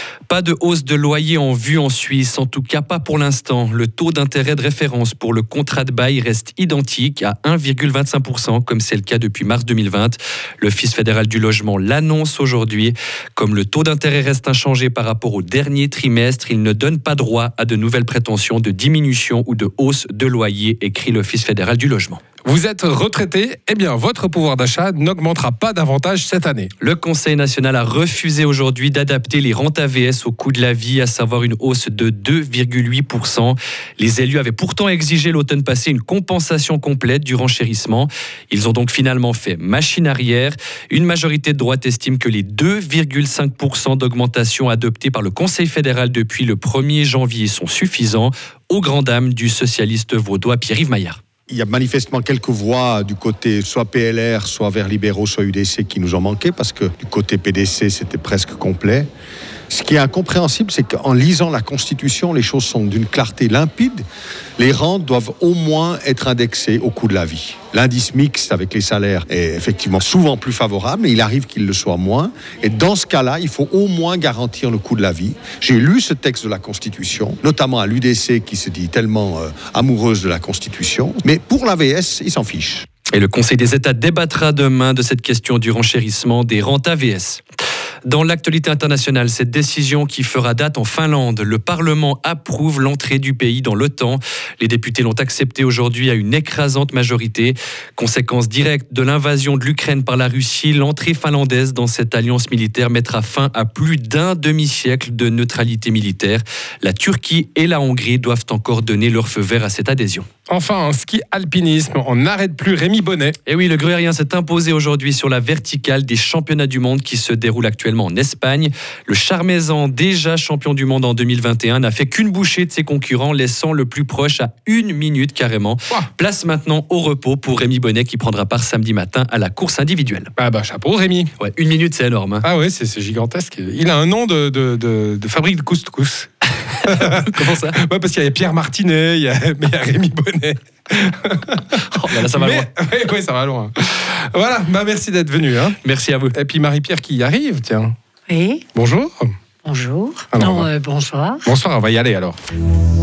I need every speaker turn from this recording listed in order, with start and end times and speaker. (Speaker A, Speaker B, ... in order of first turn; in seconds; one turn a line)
Speaker A: 0.3-22.2
Speaker B: 22.4-26.7
Speaker A: 26.8-51.2
Speaker C: 51.5-59.1
Speaker C: 59.7-64.0
Speaker C: 64.6-82.9
Speaker A: 83.1-87.4
Speaker A: 88.0-110.2
Speaker B: 110.5-113.4
Speaker A: 113.5-130.3
Speaker B: 130.4-131.3
Speaker A: 131.4-132.4
Speaker B: 132.4-136.3
Speaker B: 136.8-141.6
Speaker A: 136.8-137.8
Speaker A: 141.8-142.7
Speaker B: 142.2-145.8
Speaker A: 145.8-146.3
Speaker B: 146.3-147.9
Speaker D: 148.3-148.6
Speaker B: 148.7-149.3
Speaker D: 149.7-151.3
Speaker B: 150.3-150.7
Speaker B: 151.4-152.4